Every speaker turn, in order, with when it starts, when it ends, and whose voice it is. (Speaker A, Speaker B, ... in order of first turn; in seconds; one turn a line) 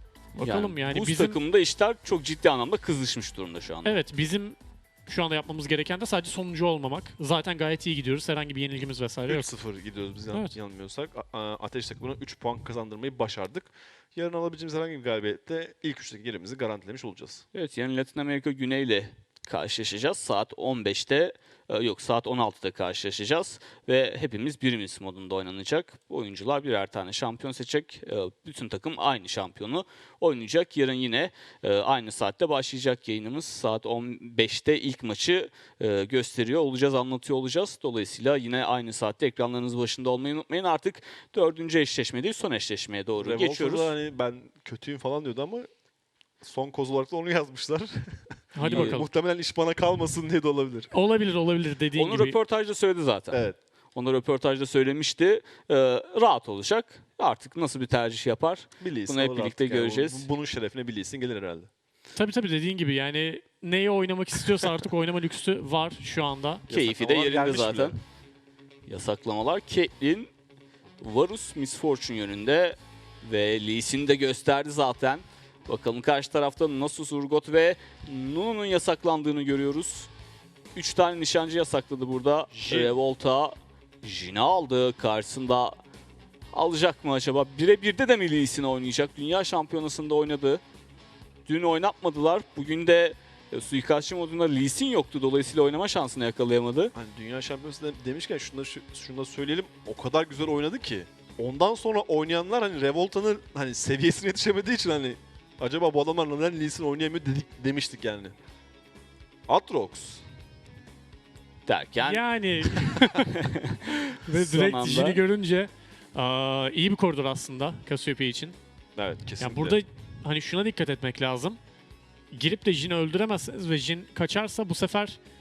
Speaker A: 0.4-1.4
Speaker B: 0.4-4.0
Speaker A: 3.8-9.5
Speaker C: 9.3-17.4
Speaker B: 17.5-43.9
Speaker C: 43.2-45.7
Speaker C: 46.4-47.9
Speaker C: 48.5-50.9
Speaker A: 48.5-49.1
Speaker B: 48.6-49.0
Speaker A: 50.9-52.4
Speaker B: 51.9-53.4
Speaker B: 53.9-60.3
Speaker C: 58.8-61.7
Speaker A: 62.1-66.6
Speaker C: 66.7-67.9
Speaker B: 66.7-68.0
Speaker B: 68.8-70.3
Speaker B: 71.0-80.1
Speaker B: 80.7-85.8
Speaker C: 82.5-82.9
Speaker B: 86.5-90.6
Speaker B: 91.5-96.9
Speaker C: 96.9-108.3
Speaker C: 109.5-110.2
Speaker B: 111.7-113.8
Speaker A: 112.0-113.2
Speaker A: 114.2-118.6
Speaker B: 114.3-115.2
Speaker C: 119.0-119.8
Speaker A: 119.4-121.6
Speaker A: 122.3-125.2